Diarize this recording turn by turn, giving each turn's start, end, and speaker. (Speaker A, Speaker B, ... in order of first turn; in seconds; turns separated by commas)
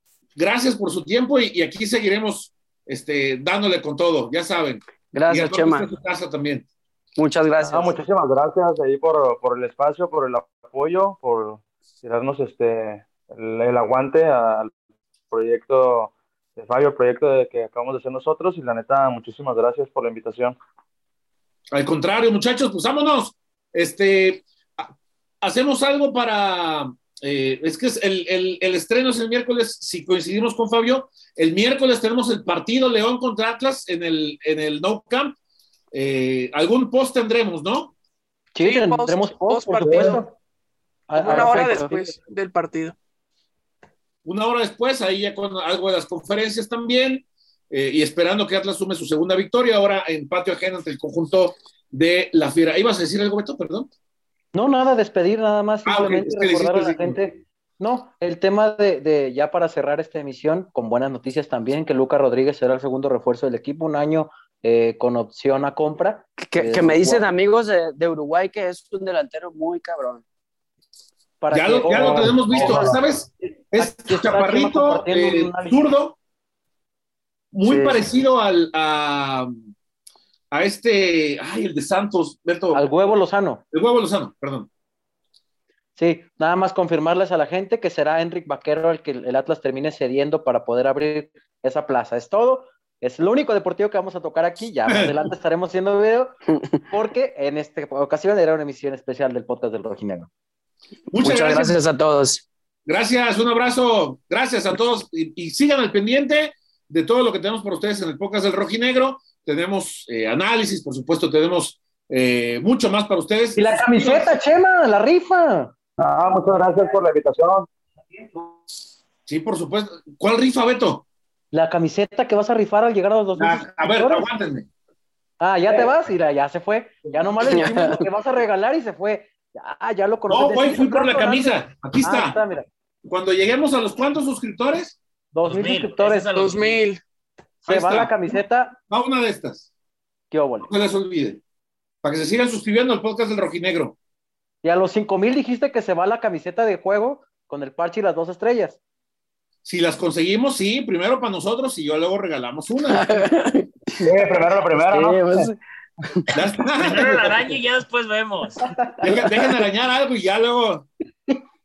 Speaker A: 0.3-6.7, Speaker B: 5.1-5.9, Speaker B: 7.2-7.9, Speaker C: 7.6-14.7, Speaker C: 15.3-20.6, Speaker A: 21.7-35.3, Speaker A: 35.9-37.9, Speaker D: 38.5-40.3, Speaker E: 38.6-40.3, Speaker C: 39.8-40.2, Speaker D: 41.1-42.0, Speaker E: 41.1-43.0, Speaker B: 41.2-41.8, Speaker A: 44.2-53.9, Speaker D: 54.5-67.2, Speaker A: 55.8-57.1, Speaker B: 66.4-70.2, Speaker D: 71.4-73.0, Speaker A: 71.5-76.2, Speaker C: 71.9-73.0, Speaker D: 73.8-75.8, Speaker A: 77.5-79.5, Speaker B: 77.6-78.1, Speaker A: 80.5-82.8, Speaker D: 82.7-83.6, Speaker A: 83.7-84.7, Speaker D: 86.0-96.3, Speaker A: 94.9-95.3, Speaker D: 96.9-100.3, Speaker A: 101.1-101.7, Speaker B: 101.2-102.5, Speaker A: 102.8-114.3, Speaker D: 113.5-115.7, Speaker C: 116.0-117.7, Speaker A: 119.3-121.0, Speaker D: 121.5-124.2, Speaker A: 123.3-124.7, Speaker D: 125.4-132.7, Speaker B: 127.5-128.0, Speaker A: 130.3-132.3, Speaker A: 133.0-135.0, Speaker D: 135.3-136.3, Speaker F: 135.4-136.8, Speaker E: 136.3-137.0, Speaker A: 137.7-138.1, Speaker D: 137.7-138.8, Speaker A: 138.9-139.7, Speaker D: 140.3-140.7, Speaker A: 140.6-141.4, Speaker A: 142.0-143.9, Speaker D: 144.6-148.8, Speaker A: 149.6-153.2, Speaker B: 152.9-154.1, Speaker C: 154.0-155.5, Speaker B: 154.8-156.3, Speaker A: 156.3-157.4, Speaker F: 156.8-158.6, Speaker D: 158.6-159.4, Speaker A: 159.0-160.9